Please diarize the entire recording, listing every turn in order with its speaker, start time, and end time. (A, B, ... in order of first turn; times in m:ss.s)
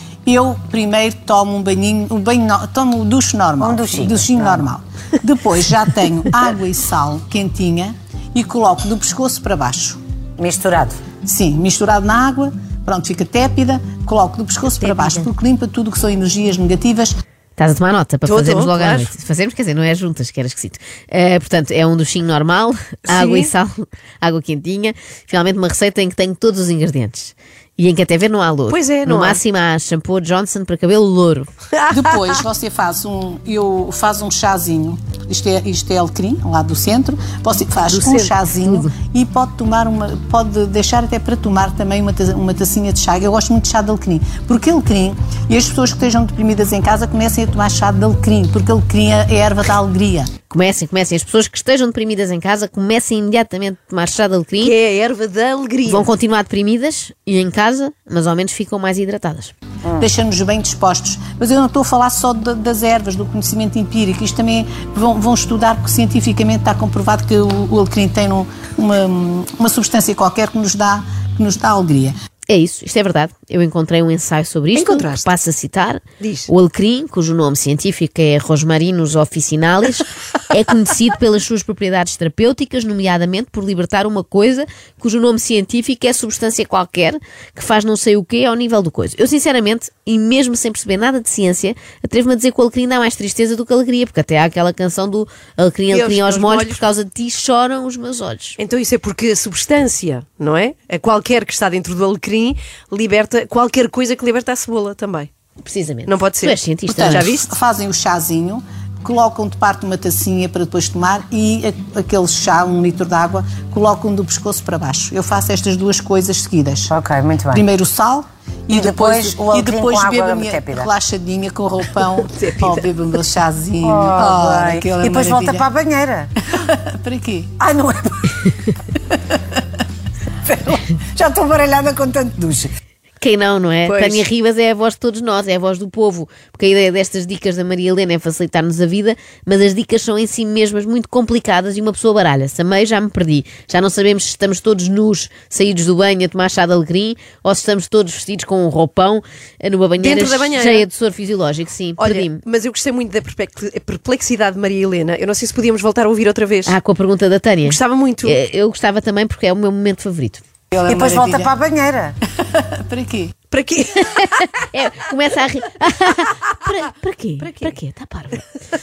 0:00.2-0:10.0 A
0:03.6-0:04.6 B
0:10.4-0:11.0 B
0:11.2-0:17.1 A
0:14.8-0:15.3 C
0:17.6-0:31.5 D
0:18.2-0:19.1 C
0:23.1-0:23.5 C
0:28.7-0:29.4 C
0:31.7-0:32.4 C
0:31.9-0:50.3 A
0:37.9-0:38.4 C
0:38.5-0:38.9 D
0:50.5-0:54.7 D
0:54.6-0:56.1 C
0:55.8-0:59.5 D
1:00.0-1:12.1 A
1:12.5-1:38.6 D
1:14.7-1:15.3 C
1:16.2-1:16.5 C
1:35.9-1:36.9 C
1:38.6-1:45.3 C
1:45.6-1:47.2 D
1:46.0-1:47.5 C
1:46.9-1:56.9 A
1:56.9-1:57.6 B
1:57.5-2:05.6 A
1:58.7-2:00.9 B
2:02.3-2:02.8 C
2:03.8-2:06.3 B
2:06.5-2:07.6 A
2:07.6-2:08.4 B
2:10.4-2:12.7 B
2:13.2-2:32.4 D
2:13.8-2:14.2 C
2:30.0-2:30.9 C
2:32.0-2:36.8 C
2:36.6-2:40.4 D
2:37.6-2:38.4 C
2:40.7-2:42.2 B
2:40.7-2:41.6 A
2:42.4-2:43.3 A
2:43.5-2:44.3 C
2:44.1-2:48.4 D
2:47.4-2:47.7 C